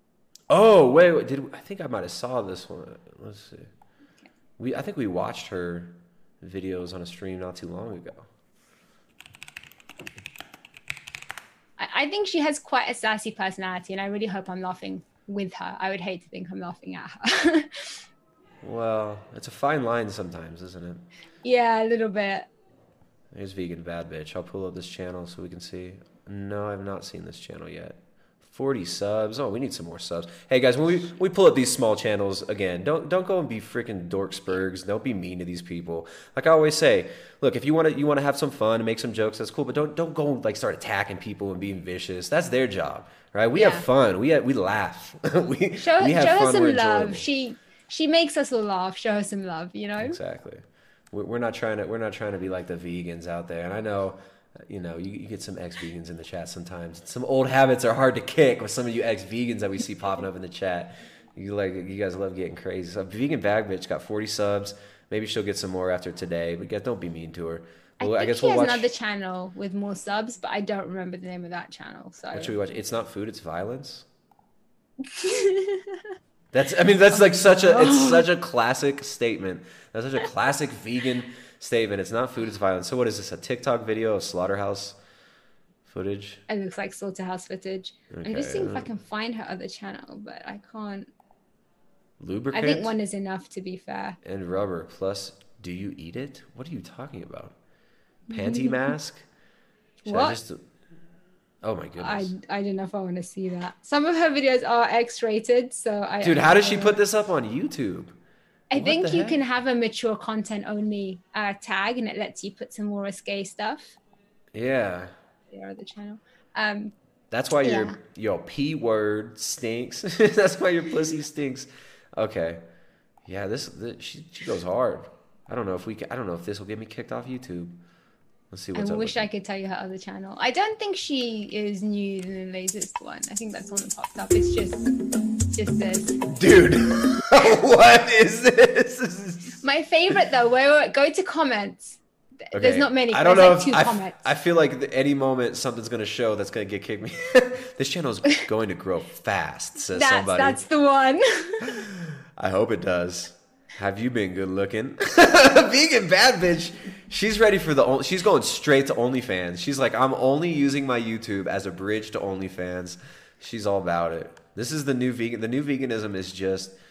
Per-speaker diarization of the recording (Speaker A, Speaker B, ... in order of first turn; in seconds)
Speaker A: 0.5-3.7, 4.6-8.3, 18.6-21.0, 23.3-47.2, 50.0-68.9, 72.3-74.0, 76.5-85.0, 85.8-86.4, 88.1-88.9, 92.2-92.9, 94.2-97.5, 98.3-99.2, 100.1-100.6, 101.6-102.3, 106.2-108.2, 108.7-109.4, 114.5-115.1, 117.3-122.6, 123.2-127.8, 128.5-129.2, 136.3-139.6, 142.5-150.6, 151.8-166.8
Speaker B: 11.8-17.7, 21.4-22.5, 43.5-43.9, 45.8-50.2, 68.0-72.5, 75.0-76.0, 77.1-78.2, 86.5-91.1, 92.5-94.2, 98.3-98.9, 100.0-100.4, 102.0-107.0, 108.7-114.0, 115.5-116.9, 117.6-118.0, 128.7-134.9, 135.5-136.2, 139.6-142.0, 142.5-144.2, 149.8-151.8